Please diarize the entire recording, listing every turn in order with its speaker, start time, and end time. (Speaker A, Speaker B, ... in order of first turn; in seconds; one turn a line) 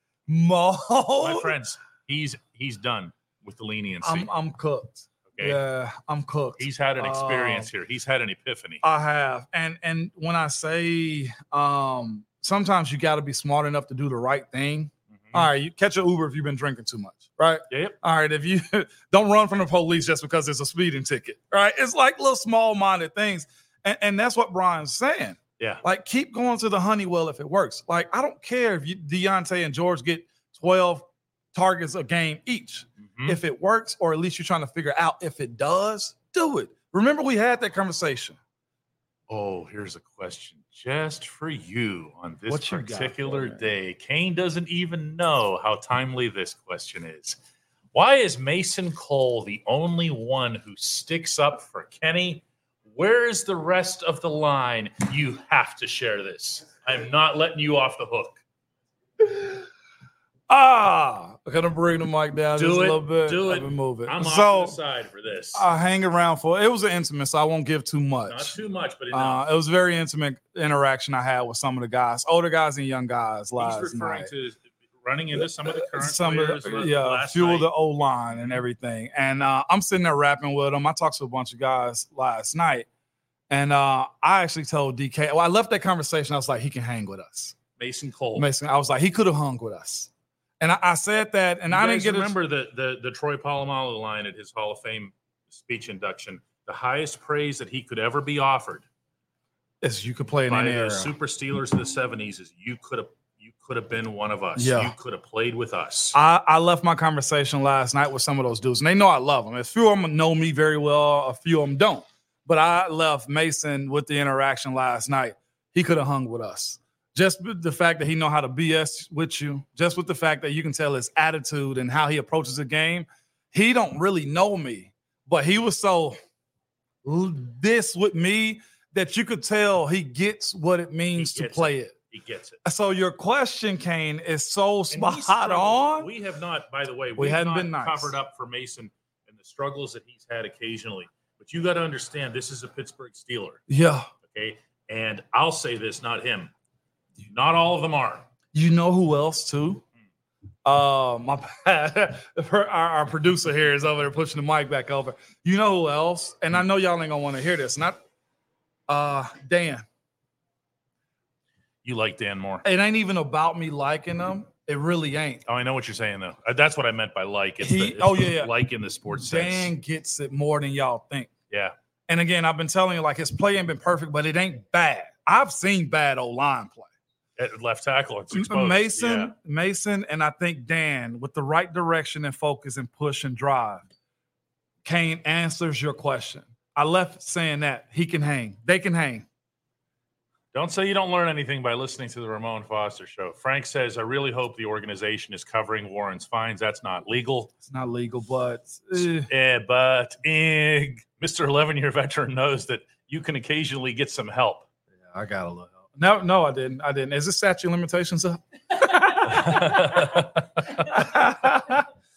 Speaker A: 0.3-1.5
Speaker B: 1.2-4.3
Speaker A: 4.0-7.7
Speaker B: 5.3-5.6
Speaker B: 6.6-8.8
Speaker A: 8.8-38.4
Speaker B: 17.7-18.0
Speaker B: 39.3-47.4
Speaker A: 42.5-43.7
Speaker B: 47.9-58.4
Speaker A: 60.5-64.8
Speaker B: 62.5-65.7
Speaker A: 65.5-68.5
Speaker B: 68.3-69.4
Speaker A: 69.1-74.3
Speaker B: 73.6-77.7
Speaker A: 75.9-82.8
Speaker A: 83.5-87.5
Speaker B: 87.8-88.5
Speaker A: 88.3-92.3
Speaker B: 91.7-98.8
Speaker A: 99.8-101.1
Speaker B: 100.5-106.2
Speaker A: 104.5-104.9
Speaker A: 106.1-126.2
Speaker A: 127.0-131.9
Speaker B: 131.2-132.6
Speaker A: 132.6-136.1
Speaker B: 134.9-143.6
Speaker A: 137.2-138.1
Speaker A: 143.7-144.1
Speaker B: 144.3-146.5
Speaker B: 147.2-148.2
Speaker A: 148.5-149.8
Speaker A: 150.6-158.0
Speaker A: 158.9-159.8
Speaker B: 161.8-162.6
Speaker A: 162.6-165.4
Speaker B: 165.4-169.7
Speaker A: 167.6-168.5
Speaker A: 169.2-171.3
Speaker A: 172.1-176.9
Speaker B: 177.4-179.3
Speaker A: 178.3-183.8
Speaker A: 184.8-189.2
Speaker B: 190.5-197.5
Speaker A: 197.6-199.3
Speaker B: 199.0-204.7
Speaker A: 205.1-211.8
Speaker B: 209.3-210.3